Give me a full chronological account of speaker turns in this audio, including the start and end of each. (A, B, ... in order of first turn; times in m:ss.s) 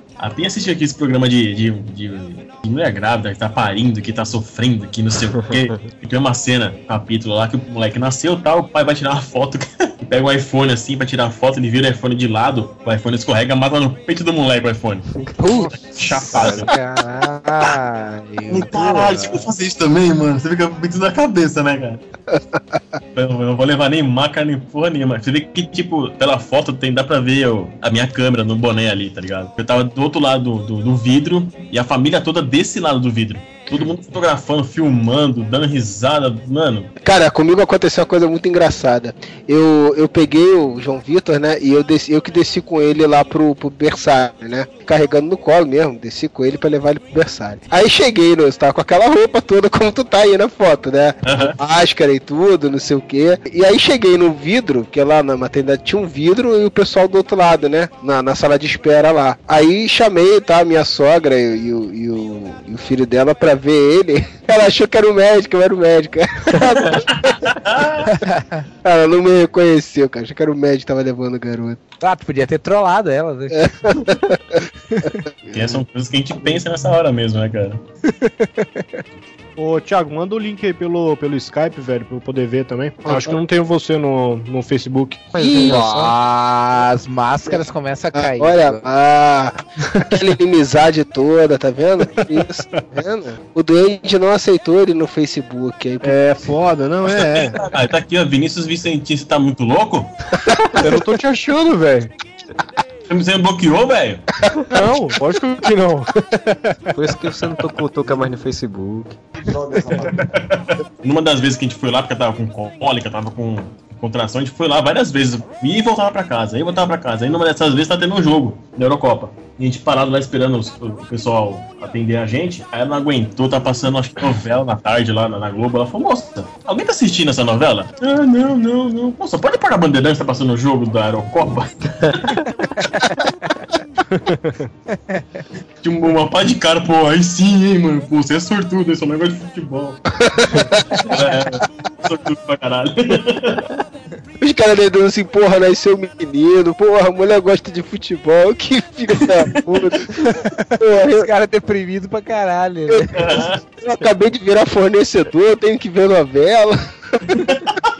0:00.2-0:15.0 A
0:15.4-0:19.4 B
0:15.9-0:16.7 A
0:18.5-0:22.0 A
0:22.3-0:22.8 C
0:23.2-0:36.9 A
0:37.0-1:07.2 C
0:51.2-0:51.6 A
1:07.6-1:08.0 A
1:08.0-1:08.6 B
1:08.8-1:11.8 C
1:12.0-1:13.6 B
1:13.5-1:14.4 C
1:15.4-1:15.8 C
1:15.5-1:17.8 A
1:18.2-1:18.8 B
1:19.6-1:26.0 D
1:23.1-1:23.3 C
1:25.3-1:26.1 C
1:25.4-1:28.8 B
1:27.5-1:36.3 C
1:36.0-1:37.6 D
1:37.1-1:37.4 C
1:37.3-1:40.1 A
1:40.8-1:42.1 D
1:43.1-1:44.2 A
1:44.7-1:46.6 D
1:46.9-1:49.2 E
1:50.1-2:11.7 A
2:13.1-2:13.5 B
2:14.2-2:14.6 D
2:14.9-2:15.4 B
2:15.8-2:20.0 A
2:20.3-2:21.0 C
2:21.1-2:23.6 A
2:24.4-2:30.1 C
2:30.8-2:31.3 C
2:31.2-2:33.3 B
2:33.1-2:33.6 A
2:33.8-2:36.8 C